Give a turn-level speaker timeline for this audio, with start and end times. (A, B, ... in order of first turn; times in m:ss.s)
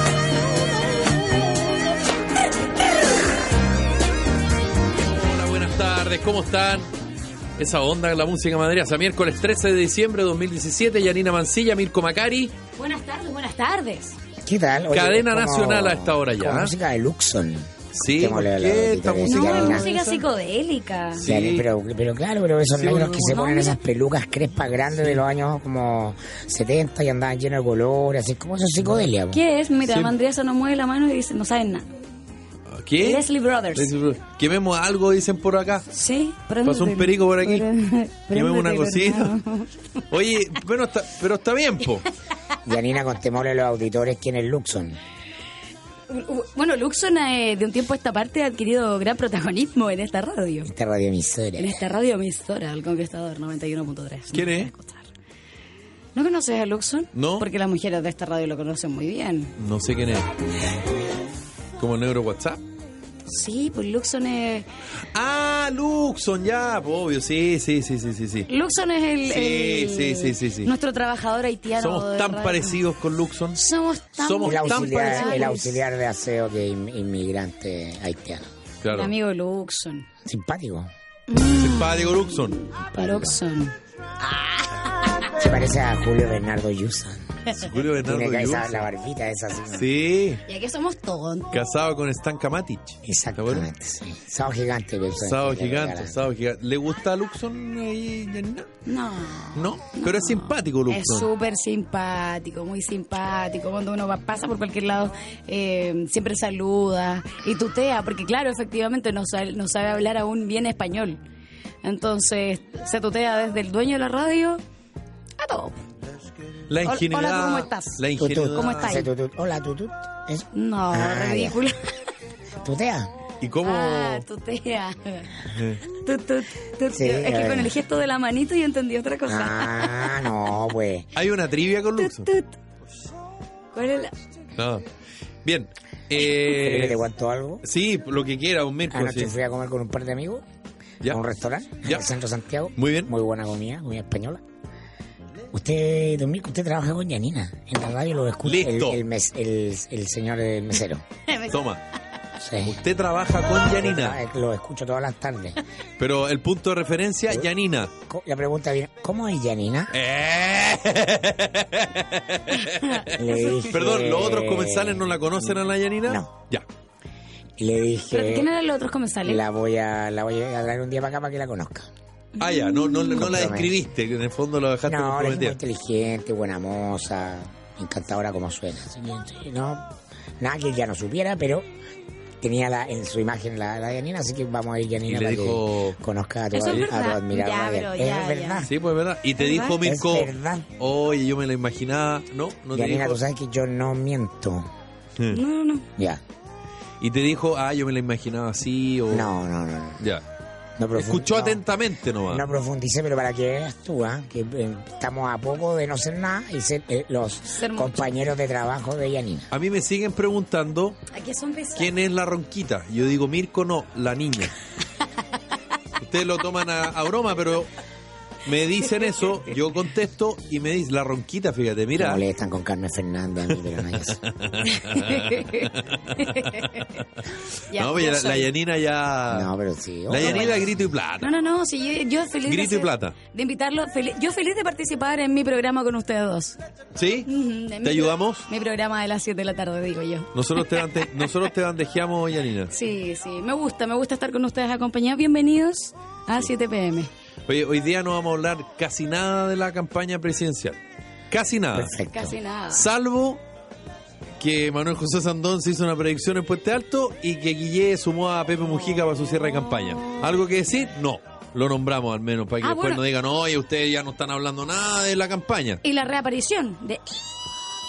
0:05.0-0:06.9 A
0:07.6-0:12.5 A
0:12.8-0:14.2 B
0:14.4-0:19.9 C
0:14.9-0:16.7 A
0:18.0-0:20.2 A
0:19.3-0:21.2 B
0:21.2-0:21.7 A
0:21.2-0:29.4 C
0:22.7-0:23.5 A
0:23.3-0:23.8 B
0:29.3-0:31.9 B
0:29.9-0:30.1 A
0:32.7-0:35.8 A
0:33.0-0:33.9 B
0:35.9-0:39.7 B
0:36.6-0:37.7 A
0:38.3-0:39.4 A
0:40.1-0:42.0 A
0:42.6-0:45.0 C
0:46.1-0:50.7 B
0:50.6-0:51.8 C
0:51.6-0:55.0 B
0:54.3-0:54.7 A
0:56.1-0:59.5 B
0:57.1-0:57.4 A
0:59.6-1:00.3 A
1:01.8-1:02.6 A
1:03.3-1:04.6 B
1:05.1-1:08.5 A
1:08.5-1:12.8 B
1:09.2-1:10.7 A
1:11.8-1:13.6 A
1:13.6-1:15.8 B
1:14.2-1:15.3 A
1:14.4-1:18.4 C
1:18.8-1:19.1 A
1:18.9-1:20.1 B
1:20.2-1:20.9 C
1:21.3-1:23.7 B
1:21.6-1:22.6 A
1:22.9-1:23.4 C
1:25.2-1:27.4 C
1:27.6-1:28.9 A
1:28.0-1:29.9 C
1:29.7-1:30.4 A
1:30.4-1:31.6 B
1:31.5-1:33.6 A
1:33.0-1:36.2 C
1:35.2-1:38.7 A
1:38.8-1:51.2 B
1:39.5-1:41.3 A
1:51.8-1:54.6 B
1:55.4-1:55.8 B
1:56.7-1:59.0 A
1:56.8-1:58.0 B
1:58.2-2:01.6 C
1:58.5-1:59.1 B
2:00.5-2:01.9 B
2:02.6-2:03.1 C
2:03.4-2:04.2 A
2:03.6-2:05.3 B
2:05.5-2:05.8 A
2:05.9-2:10.2 B
2:06.9-2:07.7 C
2:09.3-2:11.1 C
2:11.1-2:12.3 A
2:12.0-2:12.5 B
2:13.7-2:14.2 B
2:14.6-2:14.8 A
2:15.4-2:17.0 A
2:16.4-2:17.6 C
2:17.6-2:19.3 A
2:18.9-2:20.4 C
2:21.0-2:24.4 C
2:22.8-2:23.1 A
2:25.5-2:31.0 C
2:28.4-2:29.0 A
2:31.2-2:31.6 B
2:31.5-2:31.8 A
2:32.4-2:32.8 C
2:32.6-2:34.2 A
2:33.6-2:35.6 C
2:36.0-2:37.9 A
2:38.1-2:39.9 C
2:39.9-2:43.2 A
2:42.5-2:43.7 B
2:43.1-2:46.3 C
2:43.7-2:46.6 A
2:47.6-2:48.5 C
2:48.1-2:49.4 B
2:49.2-2:51.9 C
2:52.4-2:55.6 A
2:52.4-2:53.2 B
2:53.1-2:53.8 C
2:54.8-3:01.6 C
3:02.4-3:08.7 C
3:05.1-3:06.0 A
3:06.5-3:08.7 B
3:08.6-3:13.2 A
3:09.4-3:09.8 B
3:09.8-3:10.7 C
3:12.7-3:14.7 C
3:15.3-3:15.9 B
3:17.0-3:19.3 A
3:19.1-3:20.0 C
3:20.8-3:21.6 C
3:21.0-3:22.4 A
3:22.3-3:29.5 C
3:27.5-3:28.1 B
3:29.5-3:31.0 A
3:31.1-3:31.9 B
3:31.8-3:34.5 A
3:36.0-3:37.7 A
3:38.4-3:42.2 A
3:39.0-3:39.3 B
3:42.0-3:44.2 C
3:44.0-3:46.6 A
3:44.7-3:46.9 B
3:47.7-3:48.5 B
3:47.7-3:49.5 A
3:49.3-3:50.8 C
3:50.1-3:51.3 A
3:50.2-3:50.6 B
3:51.2-3:56.6 B
3:52.5-3:53.2 A
3:57.0-3:57.3 A
3:57.2-4:01.0 B
3:57.8-3:58.4 A
4:00.3-4:02.7 A
4:02.7-4:07.1 B
4:07.5-4:10.8 A
4:11.3-4:11.9 A
4:11.7-4:12.4 C
4:12.1-4:12.9 B
4:12.7-4:13.4 A
4:14.4-4:25.8 A
4:22.6-4:23.0 B
4:25.8-4:27.0 B